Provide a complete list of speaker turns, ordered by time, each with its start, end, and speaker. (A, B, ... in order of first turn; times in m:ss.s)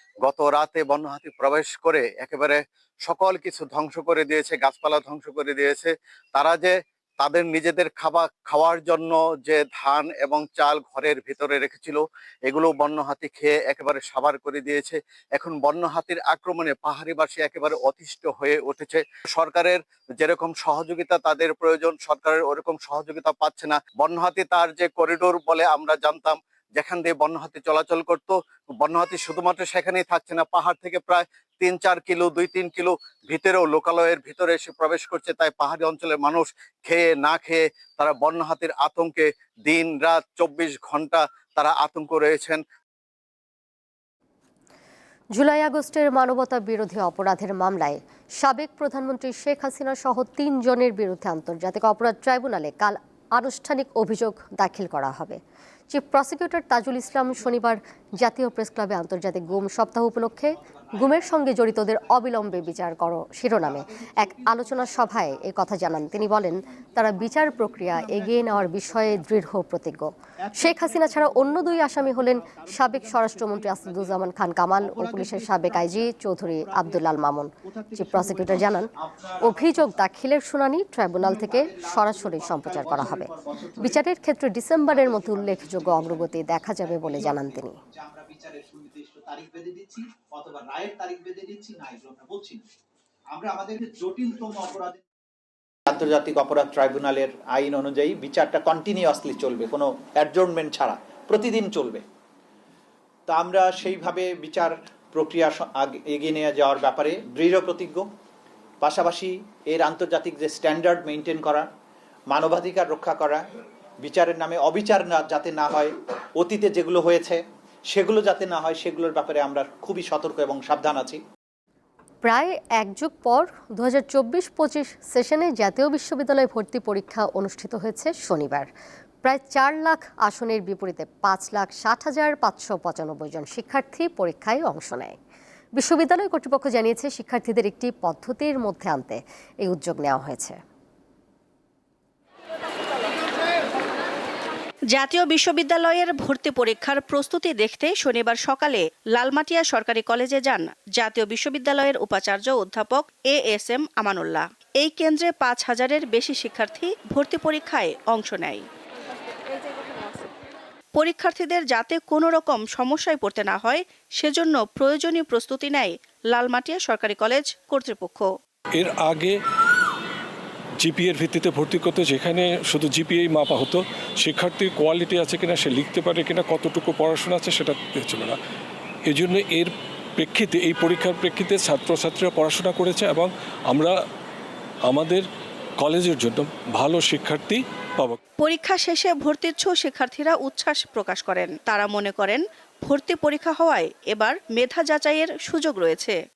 0:00.2-0:42.6 A
0:45.3-0:55.4 B
0:55.9-1:18.9 B
1:00.5-1:02.1 C
1:03.6-1:05.6 C
1:06.9-1:09.2 C
1:10.4-1:14.2 C
1:14.8-1:16.1 C
1:16.6-1:17.0 C
1:17.6-1:20.0 C
1:19.4-1:27.8 B
1:21.2-1:24.0 C
1:24.9-1:32.6 C
1:33.3-1:35.0 C
1:35.9-1:42.0 C
1:43.3-1:48.1 C
1:48.8-1:51.7 C
1:52.3-1:53.5 C
1:54.0-2:01.2 C
2:02.2-2:08.7 B
2:09.2-2:15.2 B
2:15.8-2:20.6 B
2:24.9-2:38.6 D
2:41.0-2:48.2 D
2:48.8-2:49.3 E
2:50.8-2:58.4 E
2:59.1-3:03.9 E
3:04.9-3:05.3 E
3:05.8-3:08.2 E
3:08.4-3:16.1 D